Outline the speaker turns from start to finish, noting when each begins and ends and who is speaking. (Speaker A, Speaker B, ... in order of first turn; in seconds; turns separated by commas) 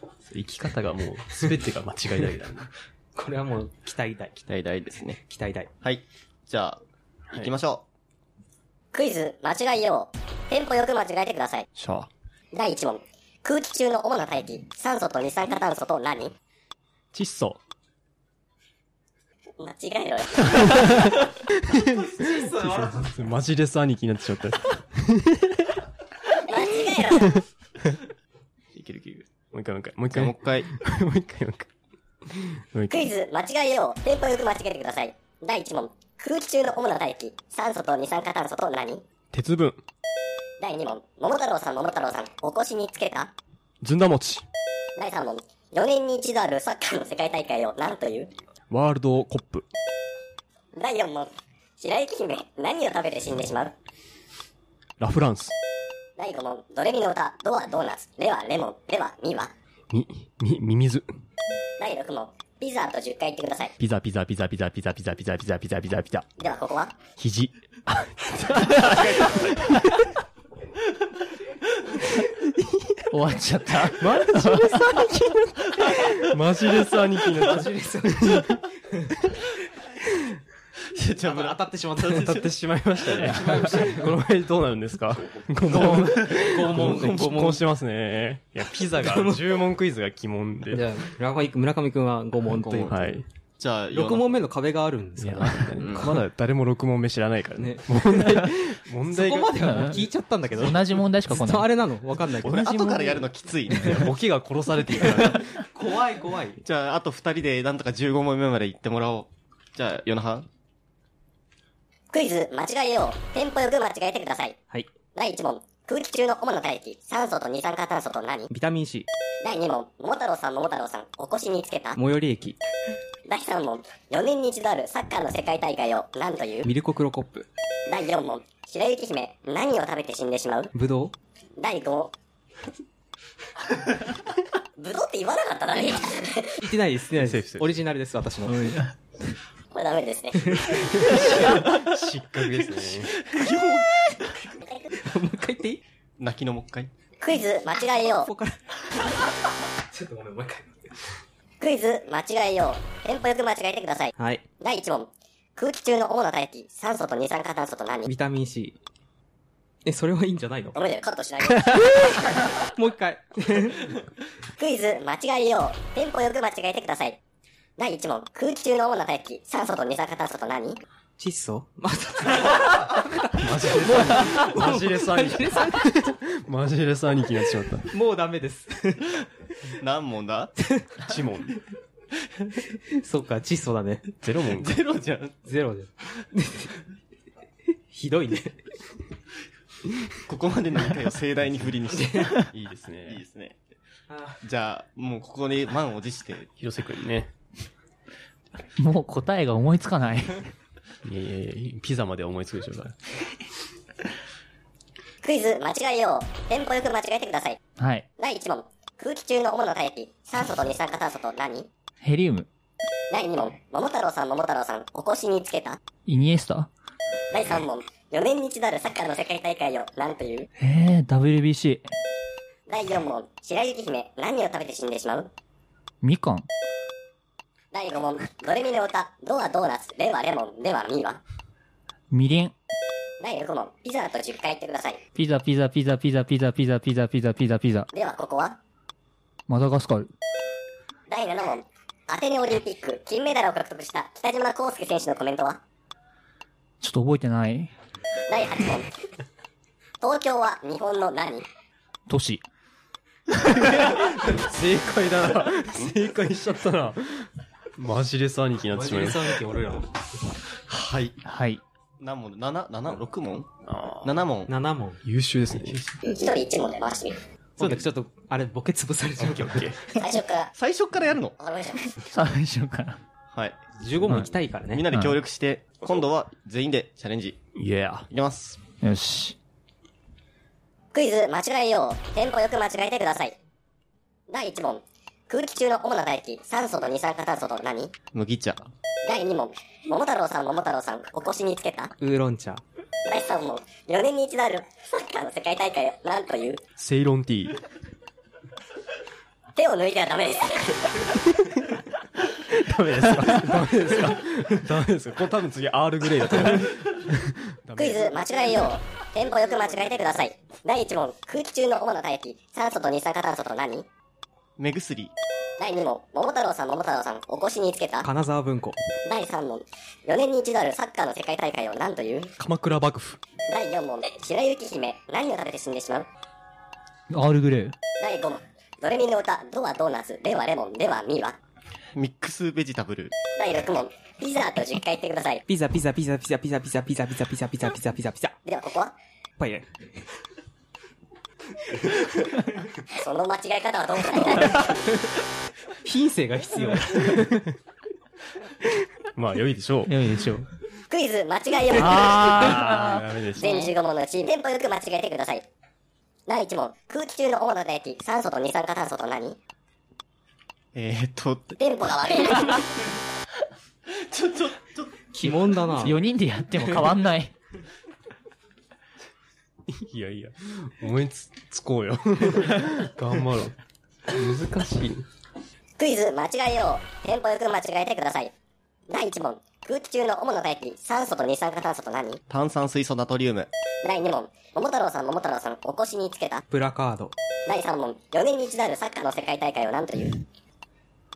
Speaker A: 0.3-2.7, Speaker B: 3.1-4.5, Speaker C: 4.5-5.2, Speaker B: 5.2-5.7, Speaker C: 5.8-6.8, Speaker C: 7.3-7.8, Speaker D: 8.9-11.7, Speaker A: 11.7-12.1, Speaker D: 12.5-16.3, Speaker A: 17.1-17.6, Speaker D: 19.6-20.9, Speaker A: 20.6-25.8, Speaker B: 21.9-23.2, Speaker D: 26.4-27.4, Speaker A: 27.3-27.9, Speaker A: 28.7-31.7, Speaker C: 30.1-30.7, Speaker A: 32.2-33.1, Speaker D: 32.9-39.0, Speaker A: 39.3-39.8, Speaker D: 40.6-43.3, Speaker A: 43.8-44.5, Speaker D: 45.0-48.3, Speaker A: 48.7-49.6, Speaker D: 50.7-53.7, Speaker A: 55.0-55.5, Speaker D: 56.2-59.5, Speaker A: 59.9-61.1, Speaker D: 61.8-63.7, Speaker A: 63.8-66.2, Speaker D: 66.4-67.0, Speaker A: 67.2-69.9, Speaker C: 68.8-69.5, Speaker A: 72.6-72.9, Speaker E: 73.1-75.0, Speaker A: 74.0-78.6, Speaker B: 77.3-79.0, Speaker C: 80.9-82.4, Speaker B: 81.2-82.5, Speaker A: 82.1-90.9, Speaker B: 83.2-84.2, Speaker B: 85.6-87.6, Speaker C: 86.7-87.1, Speaker B: 89.0-89.6, Speaker B: 90.7-93.2, Speaker C: 92.6-92.9, Speaker A: 92.7-93.2, Speaker C: 93.6-94.4, Speaker B: 93.9-96.1, Speaker A: 95.2-100.0, Speaker C: 95.8-96.2, Speaker B: 97.6-98.5, Speaker B: 99.1-102.7, Speaker E: 99.6-100.0, Speaker E: 100.6-101.7, Speaker C: 102.4-104.1, Speaker A: 102.5-103.2, Speaker A: 103.8-105.6, Speaker B: 105.0-106.6, Speaker C: 106.6-110.5, Speaker D: 112.1-114.6, Speaker D: 115.1-118.5, Speaker B: 118.5-119.1, Speaker D: 119.4-122.0, Speaker B: 122.0-122.6, Speaker D: 123.3-126.7, Speaker B: 126.6-127.5, Speaker D: 127.9-130.7, Speaker B: 130.7-131.1, Speaker D: 131.6-132.1, Speaker D: 134.8-136.6, Speaker B: 136.6-138.9, Speaker A: 137.2-137.8, Speaker D: 139.7-140.7, Speaker B: 140.4-141.7, Speaker A: 141.0-143.1, Speaker B: 143.2-145.8, Speaker D: 144.6-144.9, Speaker C: 146.2-146.9, Speaker D: 147.2-148.3, Speaker B: 148.2-149.2, Speaker B: 149.8-151.1, Speaker D: 151.6-158.1, Speaker B: 154.2-154.4, Speaker B: 158.1-158.8, Speaker B: 159.8-160.8, Speaker D: 160.7-162.2, Speaker B: 161.6-163.9, Speaker D: 164.6-167.2, Speaker D: 167.8-170.8, Speaker B: 171.2-176.1, Speaker A: 173.3-177.9, Speaker B: 177.9-179.2, Speaker C: 179.7-180.5, Speaker A: 181.0-181.6, Speaker B: 182.7-184.1, Speaker A: 184.2-184.8, Speaker C: 184.5-185.4, Speaker B: 185.4-186.7, Speaker B: 187.9-188.6, Speaker C: 190.2-192.5, Speaker B: 191.9-192.3, Speaker A: 192.5-193.2, Speaker C: 193.1-193.6, Speaker B: 194.1-194.4, Speaker C: 194.4-196.5, Speaker A: 196.6-197.3, Speaker E: 198.8-200.5, Speaker A: 201.0-203.0, Speaker D: 205.2-207.6, Speaker E: 207.8-208.1, Speaker D: 208.2-211.7, Speaker E: 212.0-212.5, Speaker D: 213.1-215.8, Speaker E: 216.1-216.7, Speaker D: 217.3-220.5, Speaker E: 220.6-221.9, Speaker D: 222.7-225.3, Speaker E: 226.0-226.5, Speaker D: 227.7-231.2, Speaker E: 232.1-232.5, Speaker D: 233.2-235.0, Speaker E: 235.2-237.9, Speaker D: 237.9-238.6, Speaker E: 239.5-240.1, Speaker D: 241.1-245.6, Speaker E: 246.8-247.7, Speaker D: 248.3-248.9, Speaker D: 250.0-251.4, Speaker E: 252.1-252.4, Speaker A: 253.4-259.4, Speaker B: 258.7-259.9, Speaker C: 260.6-261.2, Speaker E: 261.2-261.6, Speaker C: 262.0-263.5, Speaker A: 263.6-264.1, Speaker C: 264.0-264.5, Speaker B: 264.5-265.0, Speaker A: 265.0-265.8, Speaker C: 265.7-265.9, Speaker D: 266.0-267.2, Speaker A: 267.6-267.8, Speaker B: 267.6-270.0, Speaker A: 269.4-269.7, Speaker D: 269.9-270.5, Speaker C: 270.6-271.4, Speaker D: 271.4-271.9, Speaker E: 272.0-273.0, Speaker C: 273.3-277.4, Speaker B: 273.8-274.9, Speaker E: 274.9-275.2, Speaker A: 277.5-278.1, Speaker C: 278.1-278.6, Speaker E: 278.8-279.4, Speaker D: 280.9-283.4, Speaker D: 284.3-287.9, Speaker C: 288.1-288.6, Speaker D: 289.0-291.9, Speaker B: 292.0-292.6, Speaker D: 293.1-296.6, Speaker A: 296.8-297.6, Speaker D: 299.6-301.1, Speaker A: 301.3-301.8, Speaker A: 302.3-308.4, Speaker D: 307.8-313.9, Speaker C: 314.6-315.1, Speaker D: 315.6-318.1, Speaker B: 318.0-318.8, Speaker D: 319.0-322.3, Speaker A: 322.4-323.2, Speaker D: 323.5-326.1, Speaker E: 327.1-327.8, Speaker D: 328.0-331.4, Speaker C: 331.9-333.1, Speaker D: 333.4-335.4, Speaker B: 335.5-338.4, Speaker D: 338.4-338.9, Speaker B: 339.4-339.8, Speaker D: 342.9-344.7, Speaker B: 344.5-344.9, Speaker B: 345.8-347.5, Speaker A: 349.1-349.9, Speaker E: 349.9-350.5, Speaker D: 350.9-352.6, Speaker A: 351.8-353.6, Speaker E: 351.9-353.0, Speaker D: 353.4-355.4, Speaker D: 356.3-359.4, Speaker C: 360.7-361.6, Speaker D: 361.6-362.7, Speaker C: 363.9-365.3, Speaker B: 365.1-366.0, Speaker E: 365.8-367.3, Speaker A: 369.7-373.6, Speaker A: 374.1-375.1, Speaker D: 375.8-378.3, Speaker D: 378.9-382.2, Speaker C: 382.3-383.5, Speaker D: 383.8-386.4, Speaker B: 386.5-387.1, Speaker D: 387.4-390.2